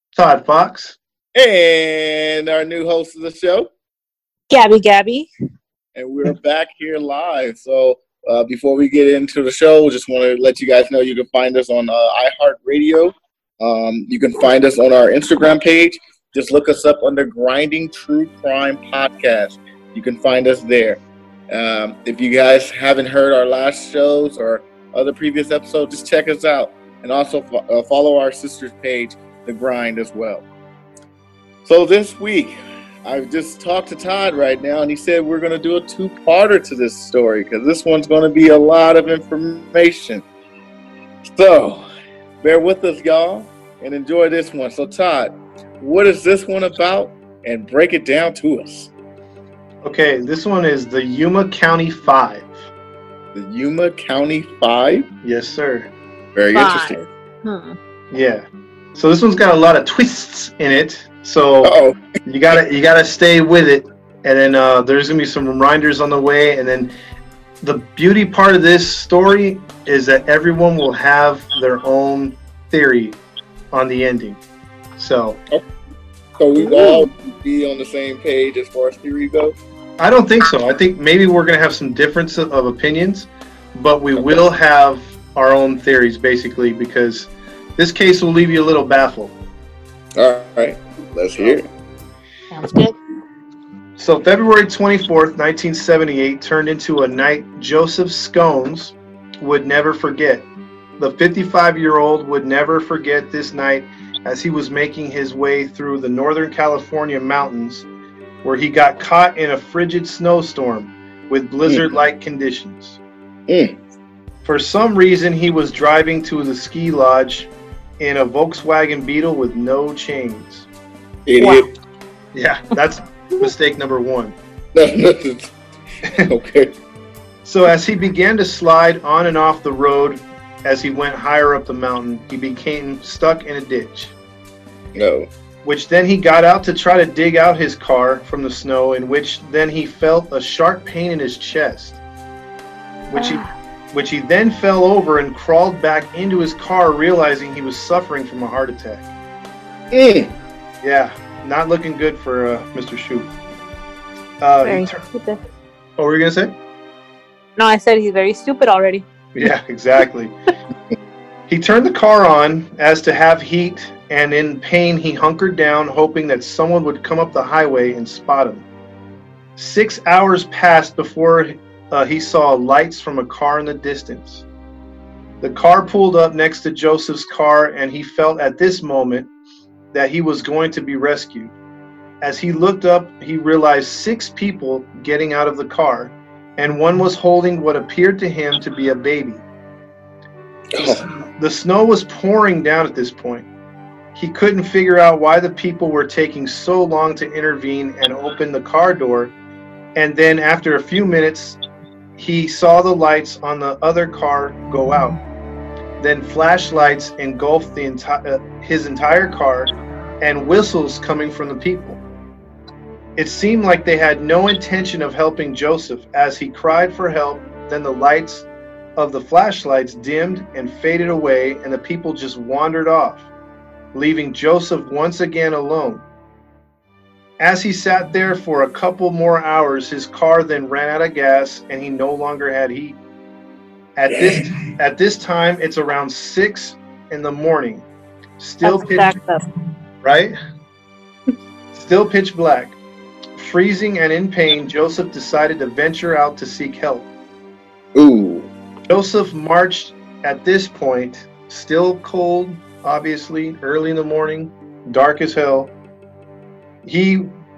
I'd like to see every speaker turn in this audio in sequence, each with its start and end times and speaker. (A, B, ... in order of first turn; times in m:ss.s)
0:00.1-0:01.0 A
0:01.3-0:03.7 B
0:04.5-0:05.3 C
0:05.9-0:30.4 B
0:31.6-0:40.2 B
0:41.2-0:41.8 B
0:42.4-0:48.9 B
0:49.8-0:52.5 A
0:53.3-0:55.1 B
0:55.2-0:55.9 A
0:56.4-0:57.0 B
0:56.5-0:57.8 C
0:58.1-0:58.4 A
0:59.0-1:01.7 A
1:01.6-1:02.0 B
1:02.2-1:06.9 A
1:07.6-1:13.2 A
1:13.7-1:14.4 A
1:15.0-1:15.4 A
1:16.4-1:19.6 B
1:20.0-1:29.3 A
1:30.2-1:31.7 B
1:32.5-1:32.9 C
1:34.0-1:40.5 A
1:41.0-1:47.9 A
1:48.4-1:53.0 A
1:53.5-1:53.8 B
1:54.4-2:00.7 A
2:01.2-2:01.7 B
2:01.4-2:01.7 C
2:02.3-2:04.3 A
2:04.7-2:05.5 B
2:06.2-2:06.8 B
2:07.4-2:14.1 A
2:14.9-2:15.3 B
2:15.6-2:22.0 A
2:23.1-2:29.1 A
2:23.2-2:23.5 C
2:29.9-2:30.3 B
2:30.8-2:33.3 A
2:34.4-2:35.0 A
2:34.6-2:35.4 C
2:36.0-2:36.5 A
2:37.6-2:39.0 C
2:39.3-2:40.3 A
2:41.5-2:48.6 A
2:49.6-2:54.4 A
2:55.4-2:59.3 A
2:59.9-3:01.5 A
3:02.2-3:09.4 A
3:10.7-3:11.0 B
3:10.8-3:13.5 A
3:14.1-3:19.3 A
3:20.0-3:21.6 A
3:22.2-3:25.2 A
3:26.0-3:32.0 A
3:33.2-3:43.3 A
3:43.9-3:46.0 A
3:47.4-3:53.0 A
3:54.0-3:57.8 A
3:54.1-3:54.5 B
3:58.4-3:59.1 A
3:58.6-3:59.4 C
4:00.0-4:00.3 A
4:01.7-4:02.8 A
4:03.4-4:07.1 A
4:08.0-4:08.5 B
4:08.9-4:15.7 A
4:16.8-4:17.3 A